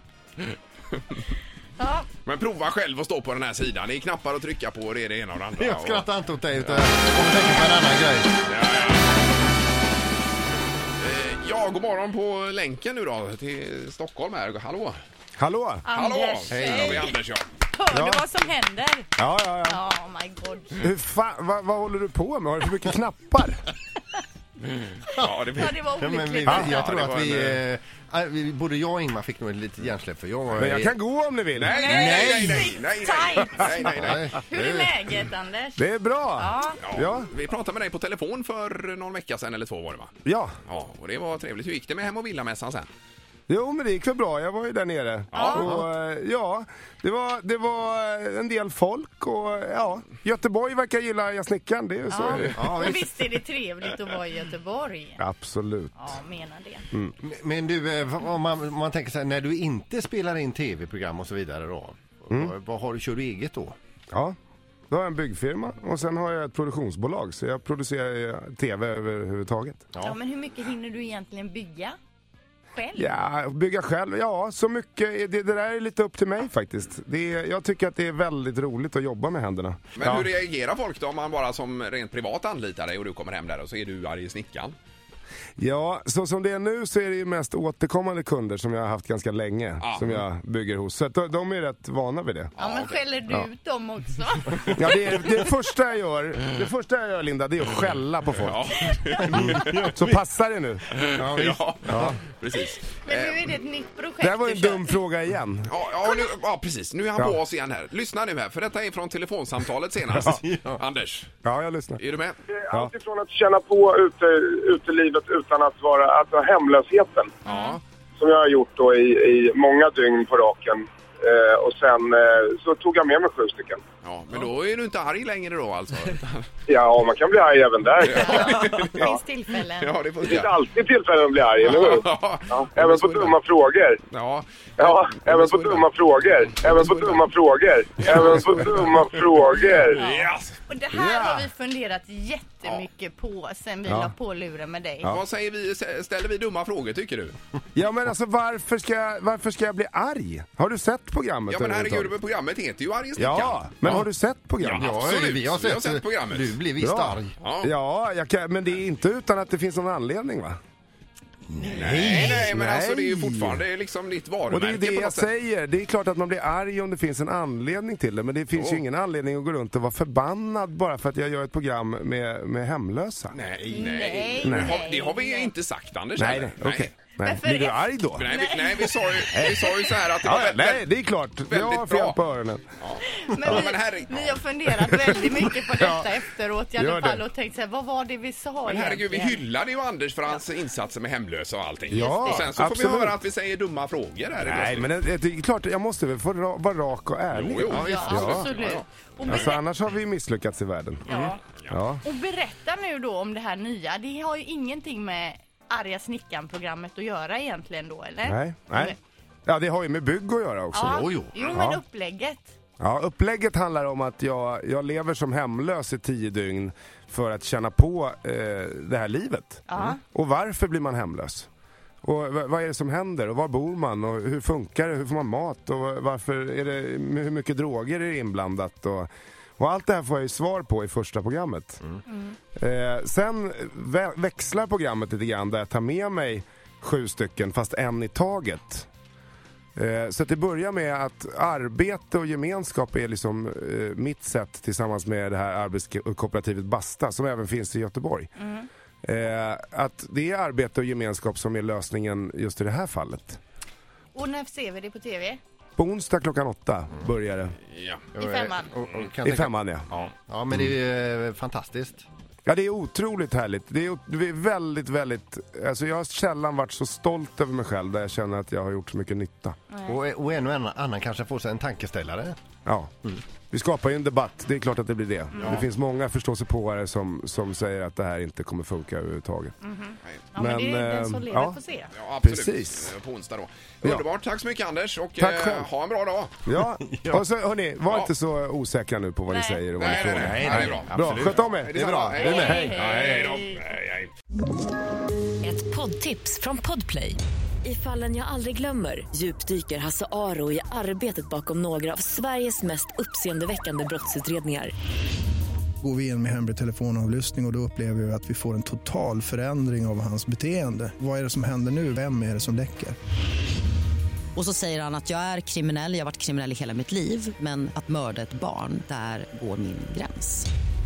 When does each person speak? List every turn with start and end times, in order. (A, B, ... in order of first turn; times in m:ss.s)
0:00.4-0:01.2 A
0:01.8-0:02.1 B
0:02.2-0:07.0 A
0:05.6-0:08.3 C
0:08.5-0:09.1 A
0:11.0-0:15.0 A
0:15.4-0:15.8 D
0:15.8-0:17.2 B
0:15.9-0:17.5 A
0:16.5-0:17.1 C
0:17.7-0:19.1 B
0:17.9-0:18.2 D
0:19.2-0:19.8 D
0:19.6-0:20.8 B
0:20.8-0:23.6 D
0:24.6-0:25.8 A
0:25.2-0:31.0 C
0:25.4-0:26.9 B
0:26.4-0:26.7 D
0:26.4-0:27.6 A
0:30.6-0:31.9 D
0:31.6-0:34.4 A
0:31.7-0:36.8 B
0:31.8-0:32.7 C
0:33.9-0:35.0 C
0:35.8-0:37.3 D
0:36.8-0:40.1 A
0:40.2-0:40.6 D
0:40.7-0:42.9 A
0:43.5-0:52.7 D
0:45.3-0:45.7 A
0:45.3-0:45.7 B
0:45.6-0:45.8 C
0:52.1-0:55.2 B
0:52.6-0:53.1 C
0:55.2-0:56.1 D
0:56.0-0:56.9 B
0:57.2-1:03.8 C
1:04.1-1:04.4 D
1:04.9-1:09.8 D
1:10.0-1:12.0 B
1:12.8-1:13.2 B
1:13.0-1:20.3 D
1:20.0-1:24.8 A
1:25.6-1:32.5 D
1:29.8-1:30.2 A
1:32.6-1:33.0 A
1:32.6-1:35.1 B
1:34.8-1:38.8 D
1:38.3-1:39.8 A
1:39.2-1:40.2 C
1:39.3-1:40.9 D
1:40.9-1:43.5 A
1:41.1-1:42.2 C
1:41.9-1:42.2 D
1:42.9-1:45.0 B
1:44.2-1:45.7 D
1:45.7-1:51.3 A
1:50.1-1:50.4 D
1:50.2-1:50.8 C
1:51.4-1:52.0 D
1:52.0-1:52.4 A
1:52.5-1:57.3 E
1:57.4-1:57.8 A
1:57.4-1:57.8 B
1:58.2-2:03.8 E
2:04.0-2:06.5 A
2:06.7-2:09.1 E
2:08.0-2:09.2 A
2:08.1-2:10.0 B
2:09.8-2:10.5 A
2:10.2-2:14.0 E
2:11.6-2:13.4 A
2:14.1-2:17.3 A
2:14.8-2:20.0 E
2:18.0-2:21.4 A
2:19.9-2:25.1 B
2:23.9-2:24.1 D
2:25.0-2:27.4 A
2:27.7-2:32.2 D
2:31.5-2:34.0 A
2:33.2-2:35.2 D
2:34.6-2:36.6 A
2:34.8-2:37.4 C
2:36.8-2:40.6 D
2:37.4-2:37.7 A
2:41.5-2:42.5 C
2:41.6-2:45.3 A
2:42.1-2:43.6 D
2:44.5-2:53.4 D
2:48.5-2:48.8 A
2:53.3-2:56.9 A
2:53.7-2:55.5 B
2:54.4-2:54.8 D
2:56.2-2:58.3 D
2:57.2-3:00.0 B
2:58.2-3:00.9 A
2:59.3-2:59.7 D
3:00.2-3:02.6 D
3:01.5-3:02.2 A
3:02.8-3:04.4 A
3:03.1-3:09.4 B
3:04.8-3:06.1 D
3:06.8-3:07.2 D
3:08.7-3:14.9 A
3:11.9-3:12.5 B
3:11.9-3:13.2 D
3:14.4-3:18.5 D
3:17.3-3:19.5 A
3:17.7-3:19.6 B
3:19.3-3:21.1 D
3:21.1-3:21.4 B
3:21.7-3:22.0 D
3:22.0-3:29.0 B
3:28.2-3:31.8 D
3:30.7-3:32.5 B
3:30.8-3:31.4 C
3:32.8-3:41.5 D
3:39.7-3:40.0 B
3:42.0-3:51.8 D
3:52.1-3:52.4 B
3:52.6-3:58.9 D
3:59.8-4:08.3 D
4:08.4-4:08.7 B
4:09.0-4:13.4 D
4:14.1-4:15.4 B
4:15.8-4:17.6 D
4:17.7-4:18.0 A
4:18.2-4:22.1 C
4:18.2-4:18.7 B
4:19.2-4:19.9 D
4:22.5-4:29.6 D
4:29.7-4:30.0 B
4:29.9-4:32.4 C
4:32.6-4:32.9 D
4:33.5-4:39.6 D
4:35.4-4:35.7 A
4:39.6-4:41.9 B
4:40.4-4:41.6 D
4:41.9-4:46.3 A
4:42.2-4:42.9 D
4:45.2-4:45.7 D
4:46.4-4:51.8 D
4:46.9-4:47.2 C
4:47.9-4:48.1 A
4:49.3-4:50.3 B
4:49.8-4:54.1 A
4:50.1-4:52.7 C
4:52.2-4:53.6 B
4:52.3-4:53.0 D
4:55.4-5:04.7 F
5:05.8-5:13.0 G
5:14.4-5:20.5 H